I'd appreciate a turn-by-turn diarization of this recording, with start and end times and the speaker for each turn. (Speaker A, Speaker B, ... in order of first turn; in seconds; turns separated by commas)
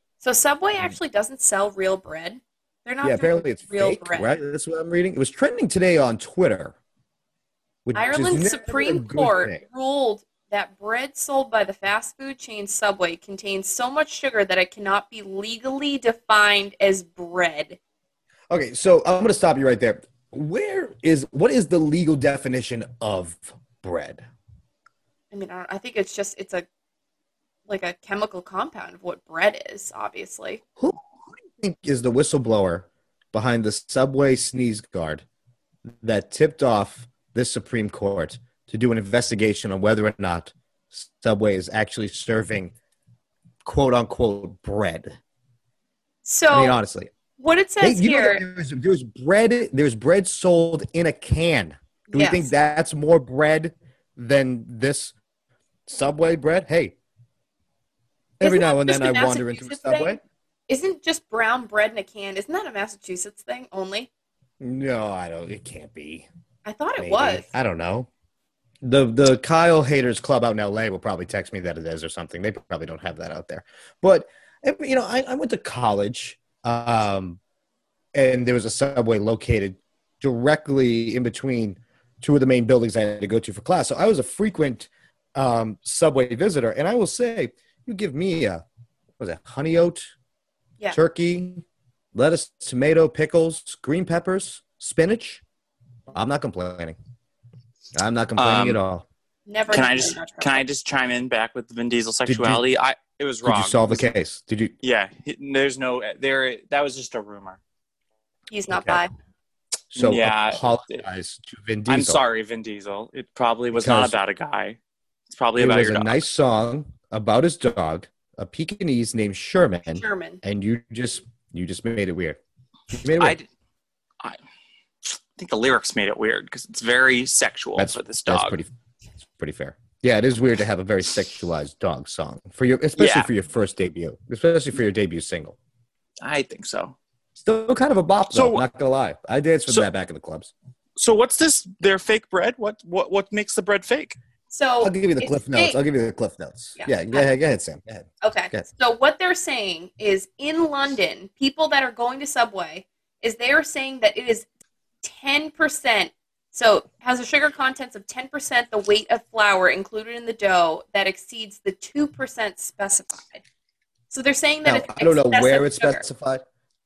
Speaker A: 0.2-4.3, Speaker B: 3.0-6.8, Speaker B: 7.9-9.6, Speaker A: 8.0-17.8, Speaker B: 18.5-24.3, Speaker A: 25.3-26.7, Speaker A: 27.7-30.6, Speaker B: 30.8-35.2, Speaker B: 36.0-42.7, Speaker B: 43.6-45.1, Speaker A: 46.2-46.8, Speaker B: 46.5-47.1, Speaker A: 47.4-48.4, Speaker B: 47.8-55.1, Speaker A: 52.1-52.5, Speaker B: 55.9-57.0, Speaker B: 58.4-60.2, Speaker A: 58.4-64.1, Speaker B: 64.6-66.3, Speaker A: 66.7-67.5, Speaker B: 67.0-68.1, Speaker B: 68.8-77.4, Speaker B: 78.2-88.6, Speaker B: 89.2-90.1, Speaker B: 90.9-95.4, Speaker B: 96.1-97.0, Speaker B: 98.0-99.0, Speaker C: 98.4-98.8, Speaker A: 99.5-100.6, Speaker C: 99.7-104.1, Speaker B: 102.3-102.6, Speaker B: 103.4-104.7, Speaker C: 104.8-107.6, Speaker A: 108.5-109.1, Speaker B: 108.7-109.0, Speaker B: 109.9-112.2, Speaker C: 110.0-111.0, Speaker C: 111.9-116.2, Speaker B: 113.8-114.2, Speaker B: 115.6-122.4, Speaker A: 119.9-120.4, Speaker B: 122.9-123.4, Speaker C: 123.2-123.5, Speaker C: 125.0-128.6, Speaker B: 127.8-128.7, Speaker B: 129.2-135.6, Speaker C: 133.0-133.3, Speaker C: 136.2-137.0, Speaker B: 137.4-140.5, Speaker C: 138.3-138.7, Speaker C: 141.0-144.2, Speaker A: 144.5-145.8, Speaker B: 144.8-148.7, Speaker A: 146.8-147.3, Speaker A: 148.2-154.5, Speaker A: 155.0-163.4, Speaker A: 164.1-166.1, Speaker B: 164.7-166.4